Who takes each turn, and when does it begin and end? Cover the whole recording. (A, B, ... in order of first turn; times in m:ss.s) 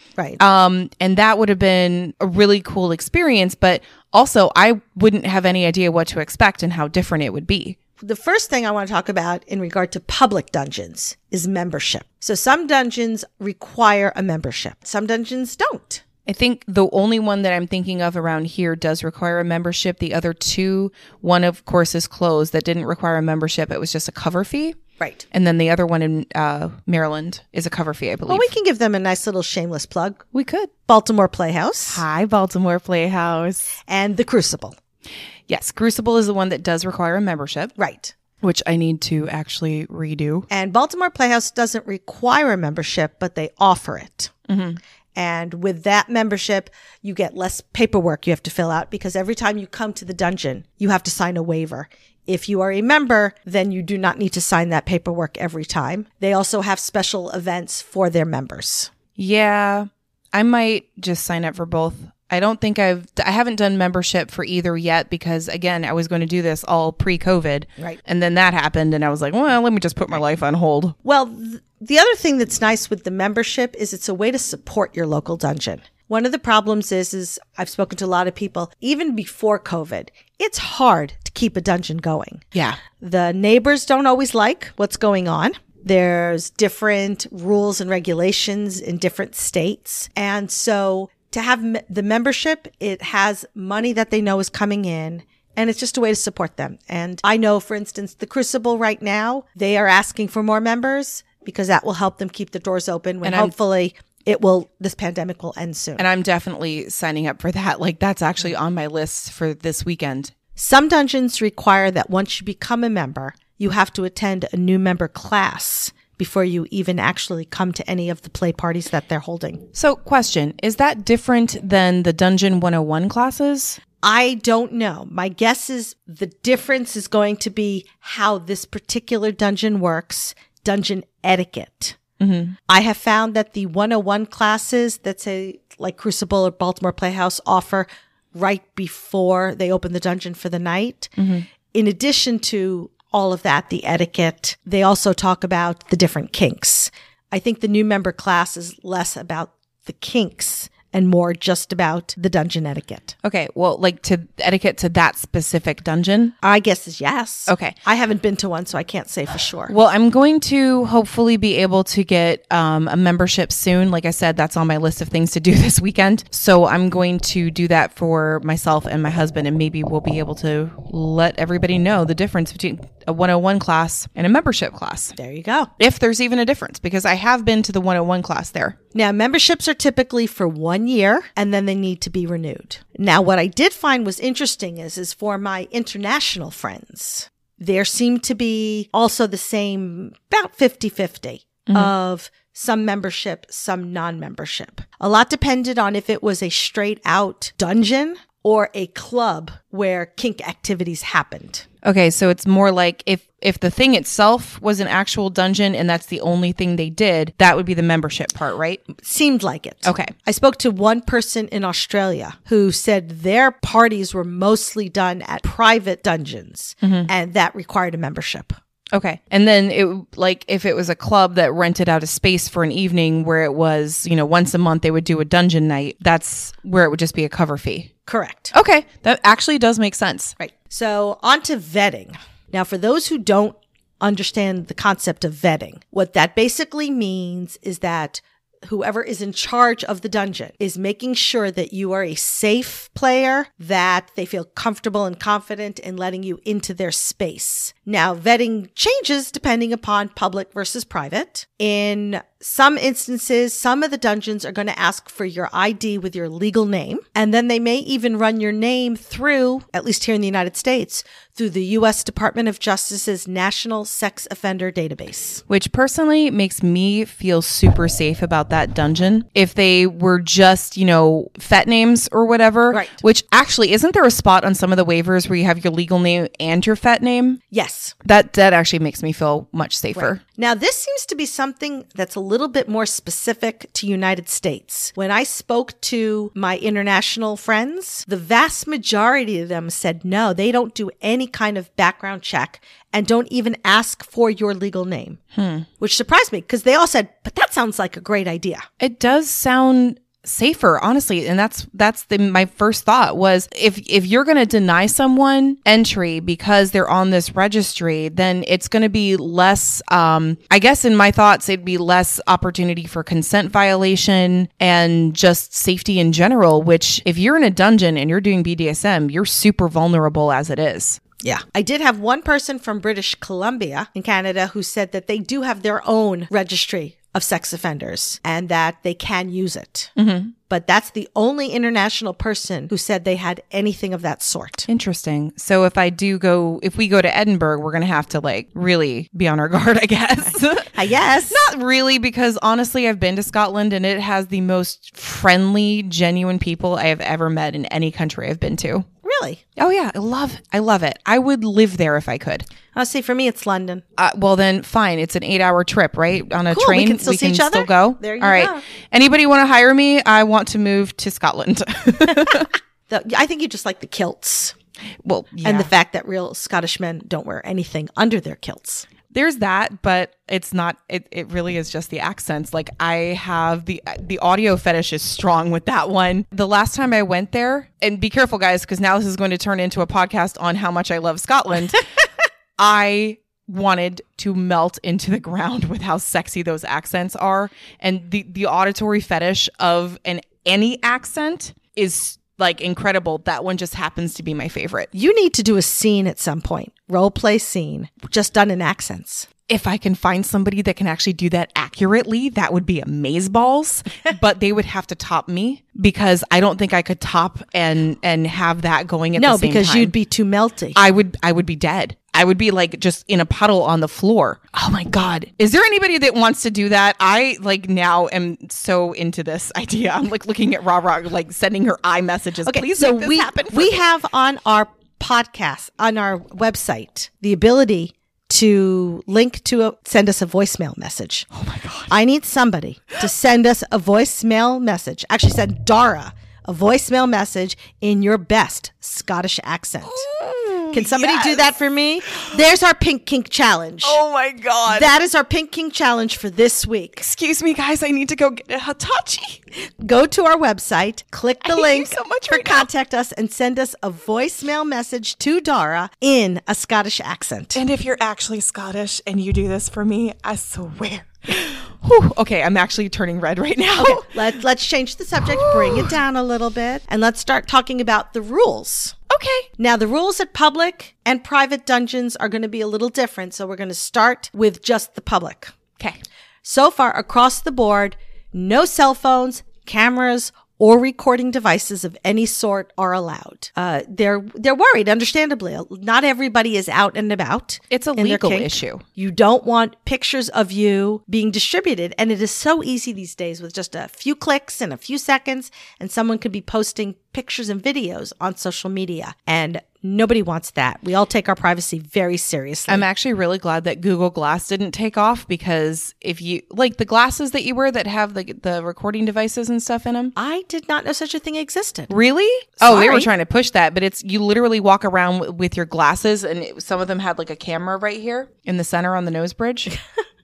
0:00.4-0:07.8 A
0:08.0-0:16.0 B
0:16.2-0:24.8 A
0:25.0-0:25.2 B
0:25.3-0:28.5 A
0:28.3-0:30.3 B
0:30.3-0:30.7 A
0:30.8-0:32.0 B
0:31.9-0:33.7 A
0:33.8-0:34.7 B
0:35.5-0:37.7 A
0:37.8-0:38.1 B
0:38.4-0:40.5 A
0:40.5-0:44.3 B
0:44.5-0:44.8 A
0:45.1-0:58.9 B
0:59.2-1:10.9 A
1:11.0-1:46.0 B
1:22.5-1:22.8 A
1:43.2-1:43.5 A
1:46.0-1:50.3 A
1:50.5-1:59.6 B
1:59.7-2:03.8 A
2:04.0-2:12.0 B
2:12.2-2:12.5 A
2:12.7-2:21.1 B
2:21.2-2:21.4 A
2:21.7-2:33.2 B
2:33.2-2:36.3 A
2:36.4-2:39.7 B
2:37.5-2:37.7 A
2:39.7-2:55.2 A
2:55.2-2:55.7 B
2:55.8-2:58.8 A
2:58.9-3:21.6 B
3:11.7-3:11.9 A
3:21.8-3:28.8 A
3:28.9-3:38.5 B
3:29.8-3:30.1 A
3:36.8-3:37.1 A
3:38.9-3:47.9 A
3:48.0-3:48.5 B
3:48.5-3:50.3 A
3:50.4-4:25.4 B
4:25.5-4:37.4 A
4:32.7-4:33.0 B
4:37.5-4:37.9 B
4:38.0-4:40.2 A
4:39.9-4:55.2 B
4:55.3-4:55.7 A
4:55.8-4:58.6 B
4:58.8-5:21.0 A
5:21.2-5:29.9 B
5:30.0-5:30.3 A
5:30.5-5:34.7 B
5:34.7-5:40.7 A
5:40.3-5:41.4 B
5:41.3-5:48.9 A
5:49.0-5:49.4 B
5:49.6-5:52.4 A
5:52.7-5:53.8 B
5:54.0-6:02.5 A
5:56.5-5:58.6 B
6:02.9-6:04.5 B
6:05.0-6:05.7 A
6:05.4-6:08.9 B
6:09.1-6:21.8 A
6:22.6-6:34.9 A
6:34.9-6:39.3 B
6:39.5-6:49.9 A
6:49.2-6:50.8 B
6:50.7-7:03.8 A
7:02.4-7:11.3 B
7:11.3-7:11.9 A
7:11.9-7:20.0 B
7:19.8-7:21.5 A
7:20.7-7:24.0 B
7:23.8-7:24.9 A
7:24.7-7:27.0 B
7:27.0-7:29.4 A
7:29.8-7:37.6 B
7:31.4-7:32.7 A
7:37.5-7:44.1 A
7:43.8-7:48.9 B
7:45.2-7:46.0 A
7:49.1-7:49.5 A
7:49.6-7:55.5 B
7:56.4-8:22.8 B
8:07.7-8:08.8 A
8:22.7-8:30.1 A
8:30.2-8:31.9 B
8:31.9-8:39.7 A
8:32.6-8:33.1 B